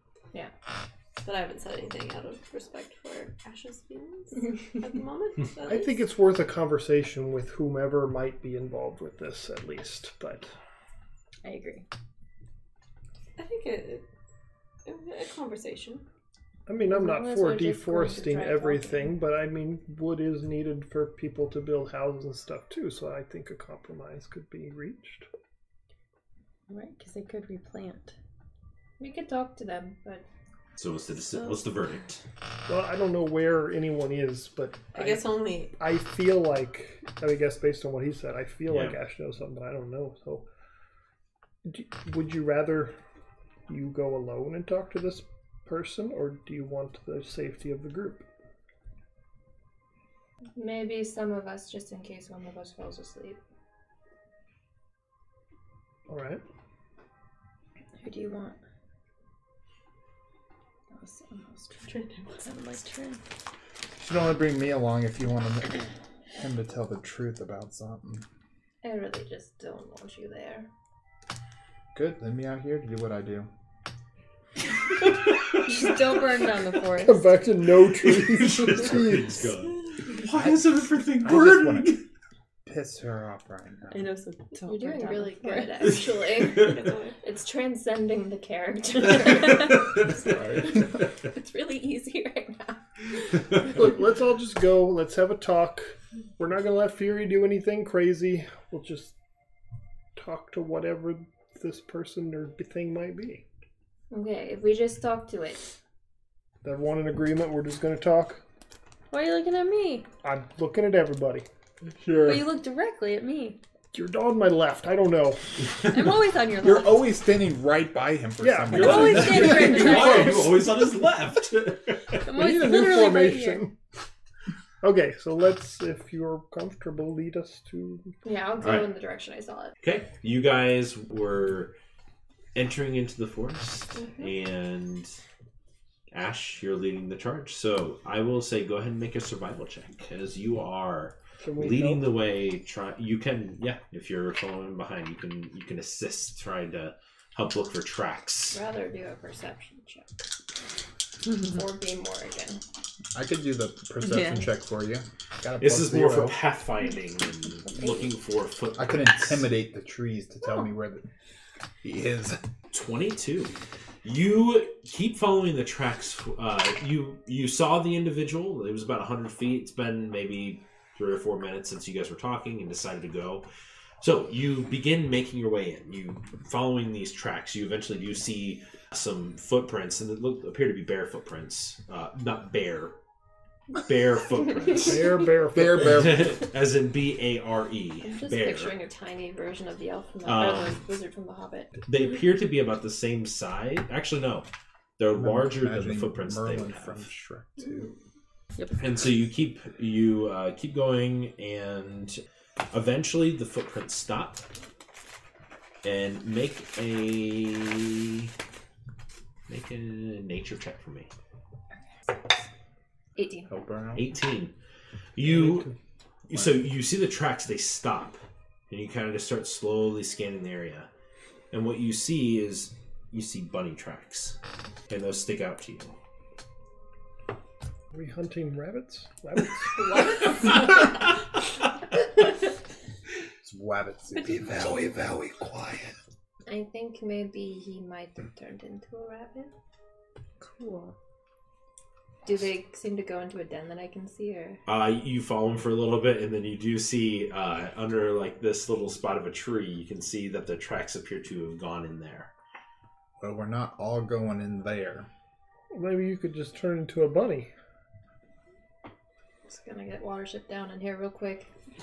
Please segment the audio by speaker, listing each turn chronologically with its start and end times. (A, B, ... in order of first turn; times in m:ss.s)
0:01.2-0:06.0 A
0:05.6-0:10.5 B
0:11.4-0:11.8 C
0:13.4-0:14.0 A
0:14.8-0:16.0 A
0:16.7-0:25.3 B
0:16.9-0:19.2 D
0:26.7-0:28.1 C
0:29.0-0:30.2 D
0:30.8-0:32.2 E
0:32.7-0:40.4 B
0:34.9-0:35.7 A
0:38.7-0:39.0 E
0:41.6-0:42.9 B
0:43.7-0:48.2 B
0:50.6-0:53.4 D
0:56.1-0:56.4 B
0:58.0-0:58.5 C
0:58.1-0:58.5 D
1:01.0-1:01.6 D
1:01.9-1:02.4 A
1:02.4-1:03.2 C
1:04.0-1:08.2 F
1:08.8-1:10.7 D
1:11.9-1:13.5 F
1:15.6-1:17.3 C
1:17.0-1:19.5 B
1:18.1-1:22.0 E
1:20.3-1:22.0 F
1:22.6-1:24.1 F
1:23.9-1:26.0 C
1:24.6-1:33.4 D
1:26.5-1:27.2 A
1:30.2-1:30.8 F
1:33.6-1:39.1 B
1:40.2-1:43.4 B
1:44.1-1:45.7 D
1:46.6-1:48.4 B
1:49.1-1:50.1 C
1:50.2-1:51.4 B
1:52.0-1:52.4 F
1:52.2-1:53.6 C
1:53.9-1:55.5 B
1:55.8-1:56.9 C
1:56.6-1:59.9 F
1:58.4-2:00.5 B
1:58.7-2:00.5 C
1:58.7-2:02.2 E
2:02.2-2:03.6 C
2:02.3-2:03.7 B
2:04.8-2:08.1 B
2:08.2-2:09.7 D
2:08.6-2:08.9 E
2:09.8-2:11.7 E
2:12.5-2:15.2 E
2:14.0-2:14.2 A
2:16.1-2:28.6 E
2:21.4-2:22.0 B
2:28.5-2:30.1 D
2:31.3-2:32.6 D
2:33.1-2:36.4 F
2:34.0-2:34.4 C
2:35.6-2:39.5 E
2:38.8-2:41.1 F
2:41.8-2:42.4 F
2:42.7-2:53.4 E
2:54.0-3:02.9 E
3:03.8-3:05.1 E
3:04.7-3:06.0 B
3:05.5-3:06.4 F
3:05.7-3:08.7 E
3:08.0-3:11.7 D
3:10.2-3:10.9 E
3:11.8-3:14.5 E
3:15.0-3:17.0 E
3:15.1-3:17.9 F
3:18.8-3:24.4 E
3:25.8-3:28.3 E
3:29.5-3:31.1 E
3:33.2-3:33.5 D
3:33.5-3:34.1 F
3:33.9-3:34.5 E
3:35.2-3:35.7 E
3:35.3-3:35.7 B
3:36.3-3:40.9 E
3:41.5-3:44.4 E
3:44.9-3:46.0 E
3:47.9-3:49.8 B
3:49.8-3:50.8 D
3:53.4-3:55.9 F
3:56.5-3:59.5 D
4:00.4-4:00.9 C
4:02.2-4:04.6 D
4:04.6-4:12.3 E
4:13.2-4:15.1 F
4:15.7-4:17.5 B
4:19.5-4:21.5 D